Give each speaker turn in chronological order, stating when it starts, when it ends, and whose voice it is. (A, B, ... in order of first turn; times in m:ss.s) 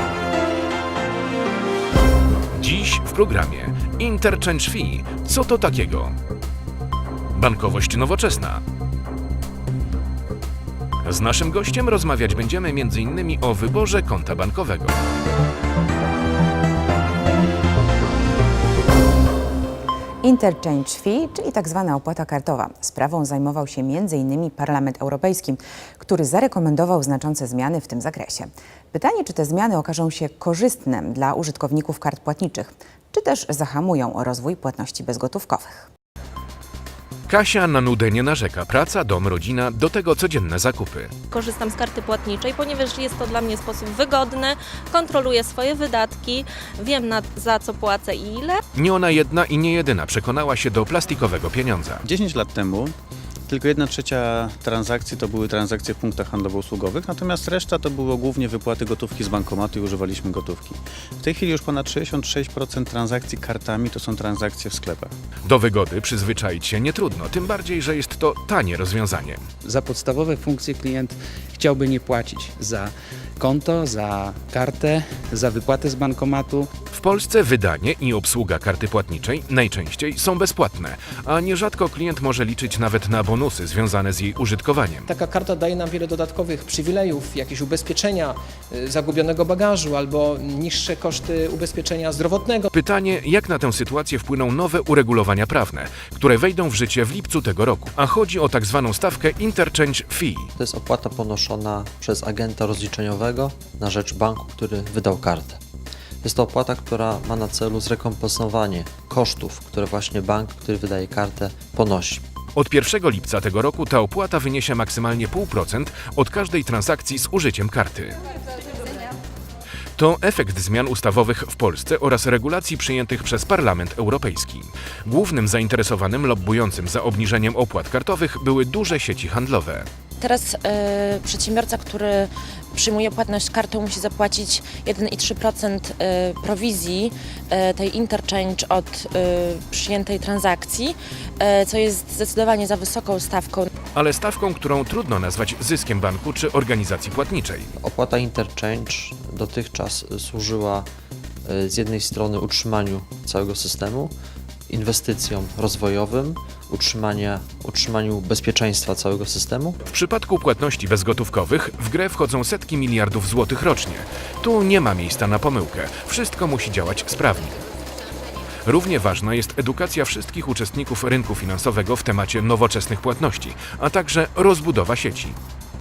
0:02.5-0:06.2 A
0:07.4-0:08.6 A
0:11.0-0:15.0 A
0:20.2-0:35.9 B
0:37.3-0:41.1 A
0:41.3-0:48.6 C
0:48.8-0:52.0 A
0:52.0-0:53.0 D
0:53.5-1:05.1 D
1:05.4-1:09.4 A
1:09.6-1:16.7 E
1:16.9-1:25.1 A
1:25.1-1:32.6 F
1:32.7-1:40.5 A
1:40.6-1:45.6 G
1:46.2-1:52.2 G
1:52.6-1:58.2 A
2:00.0-2:09.9 A
2:10.2-2:23.7 H
2:24.0-2:27.7 A
2:27.8-2:30.9 G
2:31.5-2:34.1 G
2:34.7-2:39.8 G
2:39.9-2:47.6 A
2:48.7-2:55.4 A